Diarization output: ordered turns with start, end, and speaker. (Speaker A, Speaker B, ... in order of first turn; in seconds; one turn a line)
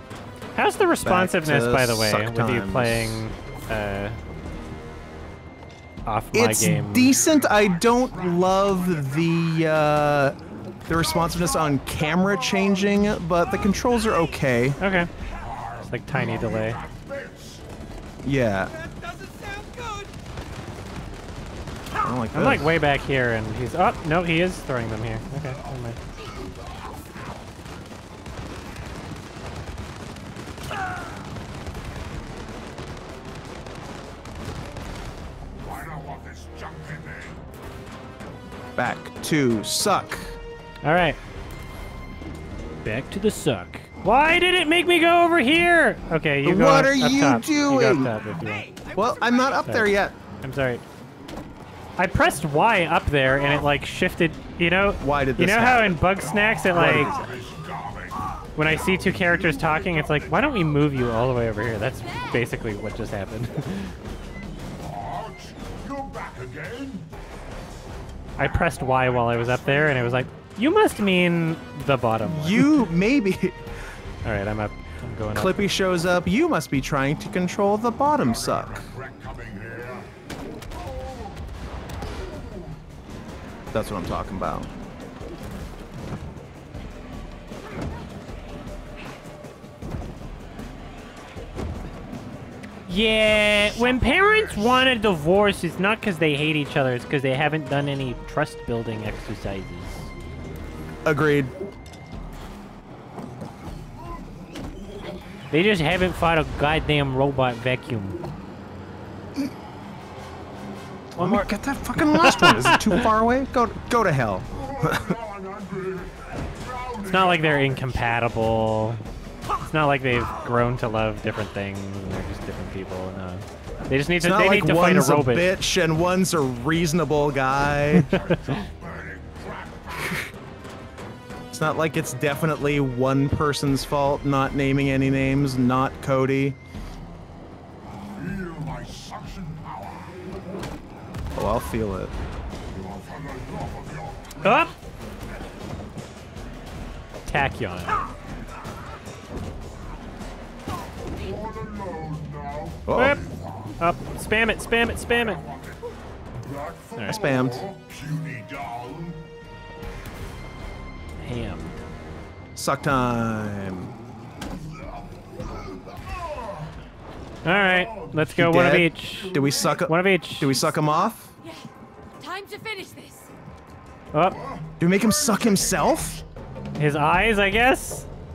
Speaker A: 0.5-4.2
Speaker B: 1.0-3.2
Speaker A: 6.0-7.1
Speaker B: 6.3-14.8
Speaker C: 7.0-10.0
Speaker A: 14.8-15.1
Speaker C: 15.3-17.6
Speaker A: 15.9-16.8
Speaker B: 18.2-18.7
Speaker D: 18.6-20.1
Speaker B: 22.0-22.7
Speaker A: 22.3-26.0
Speaker C: 35.6-37.4
Speaker B: 38.8-40.4
Speaker A: 40.8-41.2
Speaker A: 42.8-48.7
Speaker B: 46.4-48.2
Speaker D: 48.2-49.9
Speaker B: 49.0-50.1
Speaker A: 49.6-50.8
Speaker A: 52.0-57.2
Speaker B: 55.0-56.2
Speaker C: 56.4-60.9
Speaker B: 56.7-57.1
Speaker A: 58.5-63.9
Speaker E: 62.0-62.4
Speaker C: 64.8-67.1
Speaker A: 68.4-72.8
Speaker C: 68.5-70.2
Speaker B: 72.3-73.6
Speaker A: 74.2-75.7
Speaker B: 75.3-78.9
Speaker C: 78.2-80.2
Speaker B: 83.7-84.7
Speaker A: 92.9-100.1
Speaker B: 101.0-101.5
Speaker A: 105.5-108.2
Speaker B: 111.2-115.2
Speaker A: 111.2-113.1
Speaker C: 114.5-118.3
Speaker A: 117.0-119.0
Speaker A: 119.6-125.5
Speaker B: 124.2-128.1
Speaker A: 127.9-128.5
Speaker C: 128.0-130.3
Speaker B: 131.5-136.6
Speaker C: 138.1-140.7
Speaker B: 141.3-142.1
Speaker C: 142.7-144.7
Speaker A: 144.4-144.7
Speaker A: 147.3-148.1
Speaker C: 151.1-153.9
Speaker B: 152.9-153.2
Speaker A: 152.9-153.2
Speaker A: 153.8-155.4
Speaker C: 154.9-159.2
Speaker A: 156.9-157.2
Speaker B: 157.1-157.6
Speaker A: 161.2-161.7
Speaker B: 162.6-163.9
Speaker C: 164.5-166.8
Speaker A: 167.4-170.7
Speaker C: 167.4-168.2
Speaker B: 168.2-171.3
Speaker C: 168.8-169.8
Speaker E: 170.4-173.3
Speaker A: 174.1-174.4
Speaker C: 174.2-176.2
Speaker B: 174.8-176.2
Speaker A: 176.8-178.1